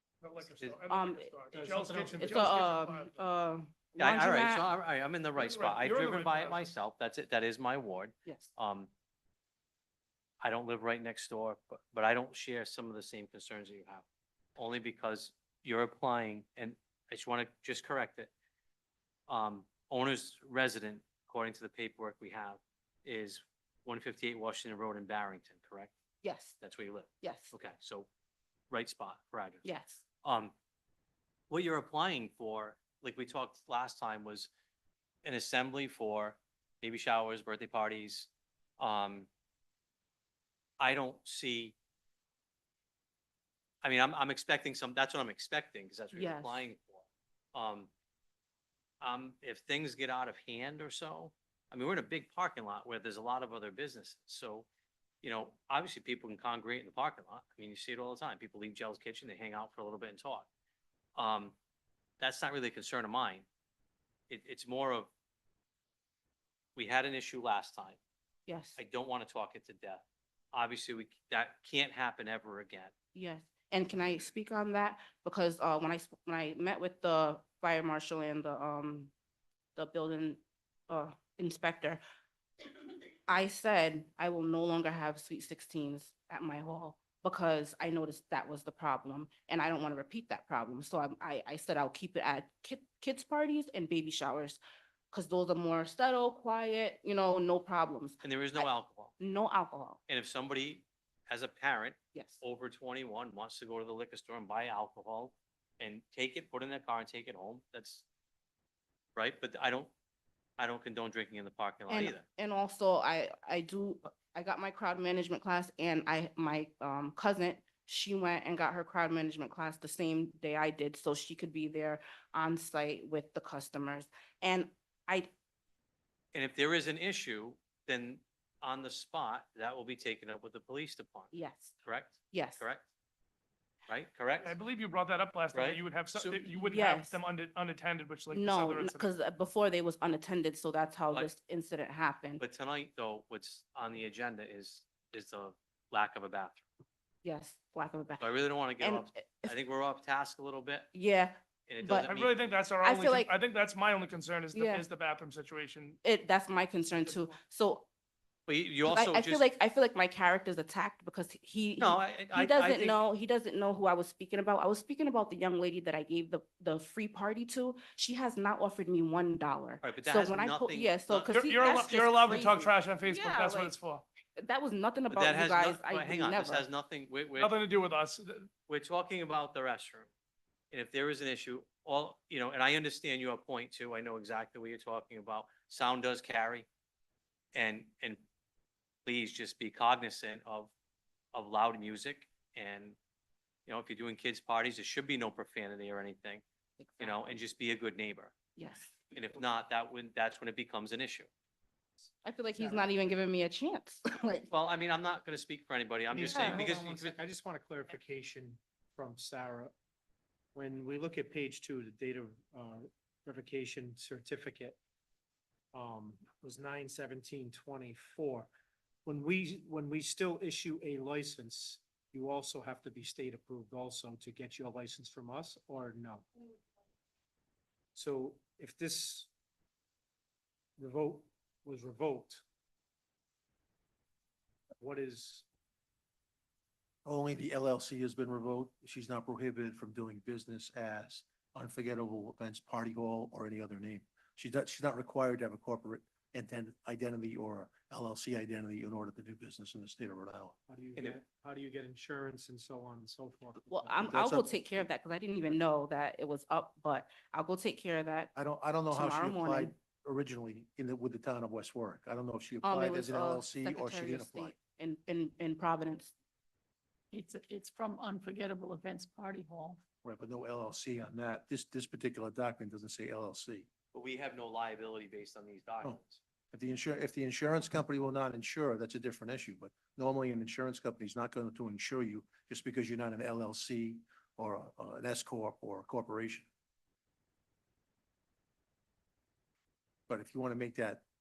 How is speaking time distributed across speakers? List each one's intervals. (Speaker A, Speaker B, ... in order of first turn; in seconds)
Speaker A: 0.2-3.2, 5.3-6.7, 134.4-139.1, 152.0-156.0, 171.2-174.1, 177.4-178.5
Speaker B: 0.9-1.4, 2.1-4.7, 8.2-8.5, 26.2-26.6, 27.2-27.5, 29.6-30.0, 46.1-46.7, 68.5-68.8, 73.1-79.1, 79.8-82.0, 83.3-94.6, 95.1-100.0, 102.1-102.4, 111.9-125.3, 131.3-131.8, 132.3-132.7, 136.6-137.2, 138.3-142.4, 147.2-149.6, 150.9-152.1, 152.8-153.3, 154.5-154.9, 156.0-157.9, 158.9-173.7, 174.4-176.7, 196.8-197.2, 198.6-198.9, 202.2-204.5, 206.3-206.6, 253.7-258.3, 258.9-259.7, 262.6-266.1
Speaker C: 1.5-2.5, 202.6-202.9, 206.1-209.7, 210.5-214.8, 215.7-218.5, 219.1-226.3, 227.9-229.3, 230.8-232.4, 234.8-235.5, 250.7-254.1
Speaker D: 4.0-8.9, 10.4-14.0, 14.6-18.3, 19.3-25.9, 26.6-28.1, 28.7-29.7, 30.2-30.5, 31.5-34.5, 35.2-39.3, 40.8-41.8, 43.8-47.9, 49.0-54.7, 55.2-60.5, 61.2-61.5, 62.2-63.5, 64.3-65.1, 66.8-68.0, 68.8-72.9, 98.2-99.2, 100.1-108.0, 109.2-109.9, 110.6-112.2, 126.3-131.3, 131.8-132.8, 133.9-134.6, 135.5-136.5, 142.4-146.6, 148.2-150.9, 151.7-152.4, 158.5-159.5, 161.8-163.0, 169.8-171.3, 175.1-177.6, 178.7-180.1, 180.7-186.7, 187.6-188.2, 189.1-190.7, 191.3-193.0, 193.7-196.4, 197.0-198.3, 199.1-201.3, 204.5-207.2, 273.9-276.2
Speaker E: 237.1-250.5, 254.1-254.5, 258.4-264.5, 270.0-273.7, 276.5-286.5, 290.1-291.0
Speaker F: 267.1-269.8